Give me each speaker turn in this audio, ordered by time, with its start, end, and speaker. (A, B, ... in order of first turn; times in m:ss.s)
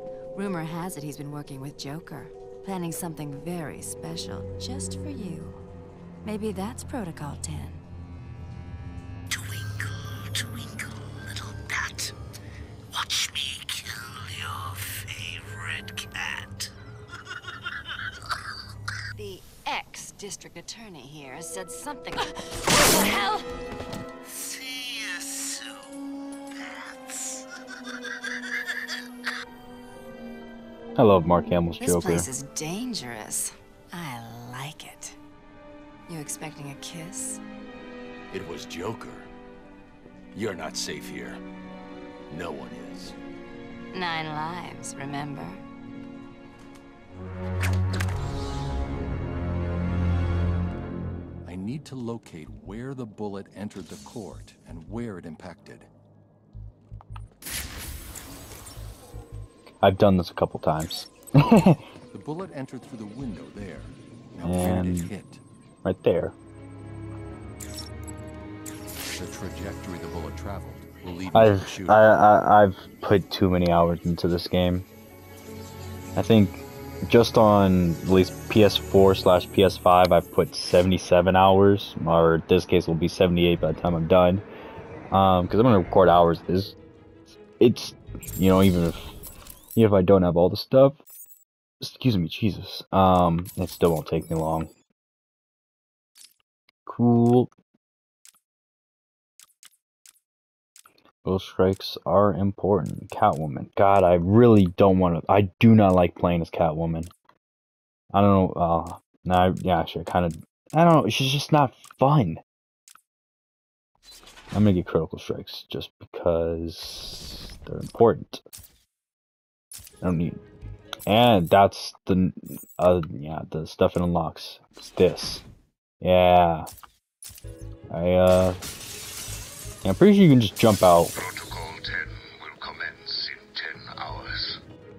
0:00.4-0:05.6 A
0:06.2-0:07.8 A
0:09.3-0:12.1 B
0:12.9-0:16.6 B
0:19.2-0:23.5 A
0:24.6-0:25.6 B
0:31.0-0:32.3 C
0:31.8-0:35.2 A
0:36.1-0:37.4 A
0:38.3-0:39.3 D
0:40.3-0:41.4 D
0:42.3-0:43.2 D
0:43.9-0:45.6 A
0:51.4-0:55.9 D
0:59.8-1:01.8 C
1:02.1-1:05.4 D
1:04.4-1:05.1 C
1:05.8-1:06.4 C
1:09.1-1:12.2 D
1:11.3-1:14.9 C
1:16.2-1:24.4 C
1:25.1-1:26.8 C
1:27.6-1:29.1 C
1:29.8-1:31.0 C
1:31.8-1:34.7 C
1:36.9-1:37.5 C
1:41.2-1:47.1 C
1:48.1-1:52.4 C
1:54.5-1:58.4 C
2:00.0-2:00.4 C
2:01.1-2:05.4 C
2:06.0-2:06.7 C
2:07.9-2:08.6 C
2:09.8-2:11.1 C
2:11.2-2:14.6 E